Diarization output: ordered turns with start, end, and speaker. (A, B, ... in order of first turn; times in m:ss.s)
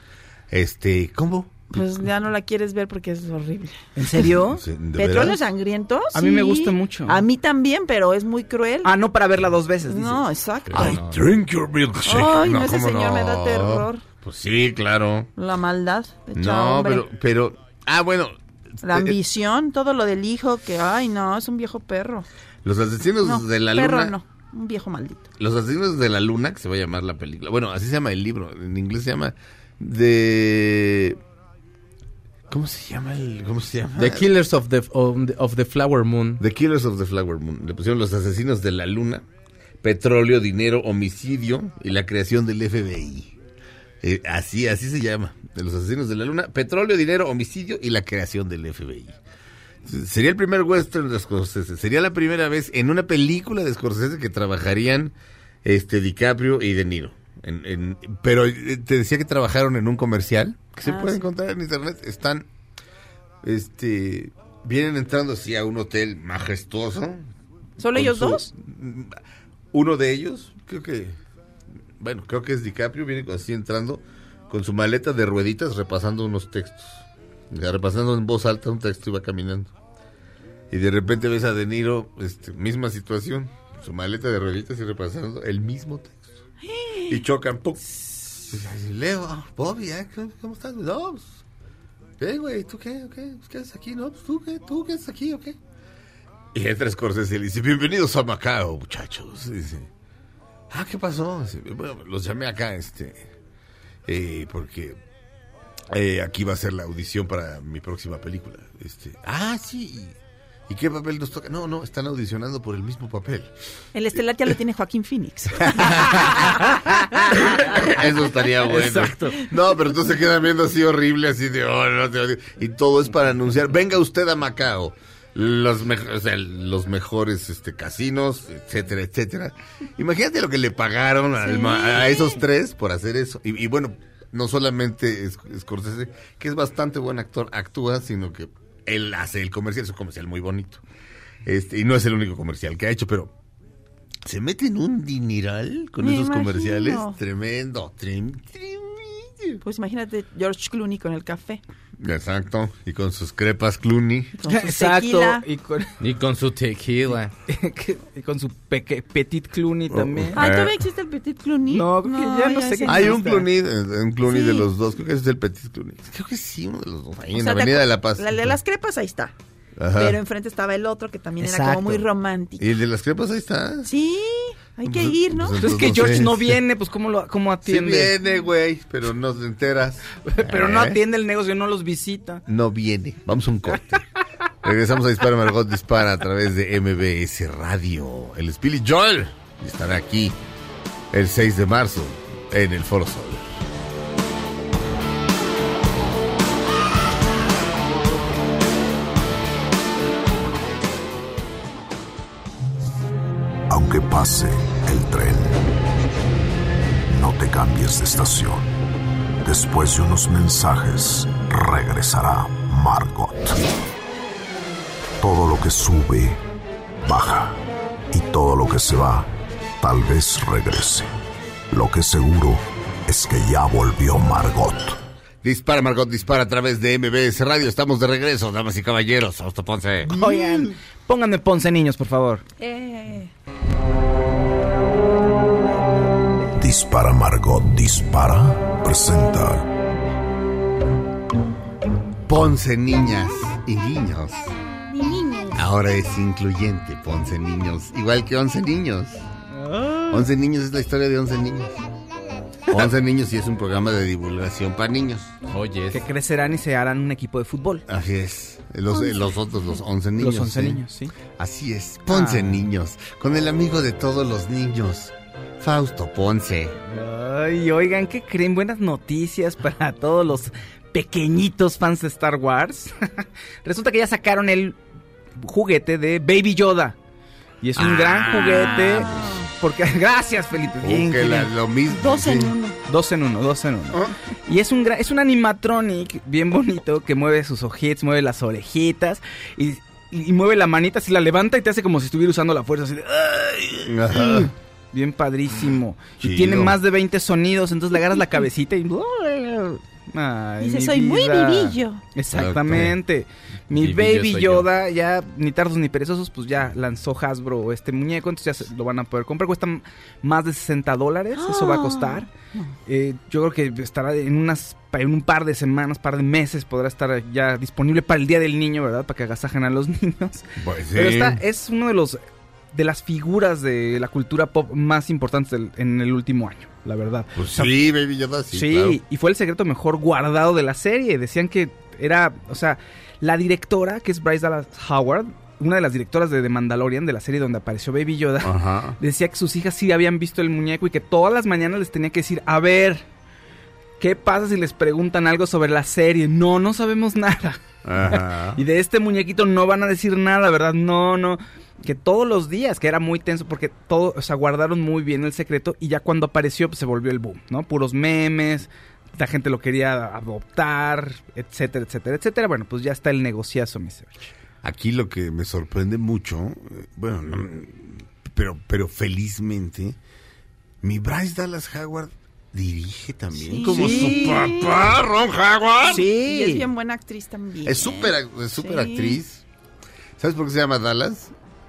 0:00.5-0:01.8 A
0:01.7-0:03.8 B
0:04.0-0:04.6 C
0:04.5-0:05.4 A
0:04.9-0:08.9 B
0:06.1-0:07.2 C
0:08.8-0:10.2 C
0:09.9-0:11.0 B
0:10.6-0:11.2 D
0:10.7-0:15.3 A
0:12.0-0:14.0 B
0:15.4-0:17.0 B
0:16.3-0:19.2 A
0:18.8-0:22.3 B
0:22.6-0:24.2 A
0:23.2-0:25.3 B
0:25.4-0:31.2 A
0:32.5-0:34.2 A
0:34.0-0:36.4 D
0:36.4-0:39.2 A
0:39.8-0:43.3 A
0:44.0-0:49.2 A
0:49.8-1:02.5 A
1:00.8-1:01.2 B
1:03.4-1:07.3 A
1:07.8-1:08.5 B
1:07.9-1:09.2 A
1:09.7-1:11.2 A
1:12.0-1:19.7 A
1:20.7-1:26.3 A
1:26.6-1:27.2 B
1:27.1-1:31.4 A
1:32.2-1:35.6 A
1:36.5-1:39.9 A
1:40.7-1:43.3 A
1:44.0-1:45.0 A
1:45.9-1:50.2 A
1:50.7-1:53.5 A
1:53.9-1:56.6 B
1:55.7-1:56.3 A
1:57.5-2:20.8 A
1:58.8-1:59.1 C
2:11.4-2:12.4 B
2:21.4-2:23.3 A
2:24.2-2:29.6 A
2:26.0-2:27.2 B
2:29.6-2:31.6 B
2:32.0-2:34.4 A
2:34.4-2:35.4 B
2:34.4-2:35.9 C
2:36.0-2:37.3 D
2:37.5-2:40.4 C
2:39.9-2:40.7 A
2:40.4-2:43.2 B
2:41.7-2:43.4 C
2:42.9-2:48.5 A
2:44.2-2:44.7 B
2:47.3-2:49.3 B
2:49.8-2:50.2 A
2:49.9-2:52.6 B
2:51.4-2:52.0 C
2:52.6-2:53.9 A
2:53.8-2:55.6 B
2:54.8-2:56.6 A
2:55.6-2:58.1 C
2:57.6-3:01.0 A
3:00.2-3:02.4 C
3:02.5-3:04.0 A
3:04.6-3:10.4 A
3:11.1-3:13.5 A
3:23.7-3:25.6 E
3:27.1-3:28.7 E
3:29.4-3:33.6 E
3:35.2-3:36.4 E
3:37.0-3:41.1 E
3:41.7-3:45.0 E
3:45.4-3:50.6 A
3:50.0-3:52.4 C
3:52.6-3:53.3 B
3:56.6-3:59.6 E
4:02.3-4:04.5 A
4:04.9-4:05.6 B
4:05.5-4:09.2 A
4:09.5-4:10.2 C
4:10.1-4:11.8 A
4:12.7-4:15.3 A
4:15.5-4:16.0 D
4:15.9-4:17.8 C
4:17.9-4:20.8 A
4:20.2-4:21.1 C
4:21.4-4:26.8 A
4:22.1-4:22.6 C
4:26.9-4:34.8 C
4:35.4-4:37.0 C
4:37.6-4:41.5 C
4:37.8-4:39.2 A
4:38.4-4:39.5 B
4:40.8-4:42.5 A
4:41.9-4:42.8 B
4:42.9-5:12.3 C
4:53.8-4:54.5 A
4:56.2-4:56.8 A
5:00.6-5:02.0 B
5:02.3-5:02.9 A
5:03.7-5:04.7 D
5:11.4-5:12.3 B
5:12.8-5:22.2 C
5:20.6-5:21.4 A
5:22.7-5:27.7 C
5:27.4-5:29.0 A
5:28.5-5:43.0 C
5:38.4-5:39.0 A
5:44.0-6:04.1 C
5:47.8-5:48.6 A
6:04.6-6:10.0 A
6:10.8-6:16.0 A
6:13.3-6:14.9 B
6:13.6-6:14.4 C
6:15.9-6:16.7 C
6:16.0-6:19.2 B
6:17.6-6:19.4 A
6:20.2-6:21.3 A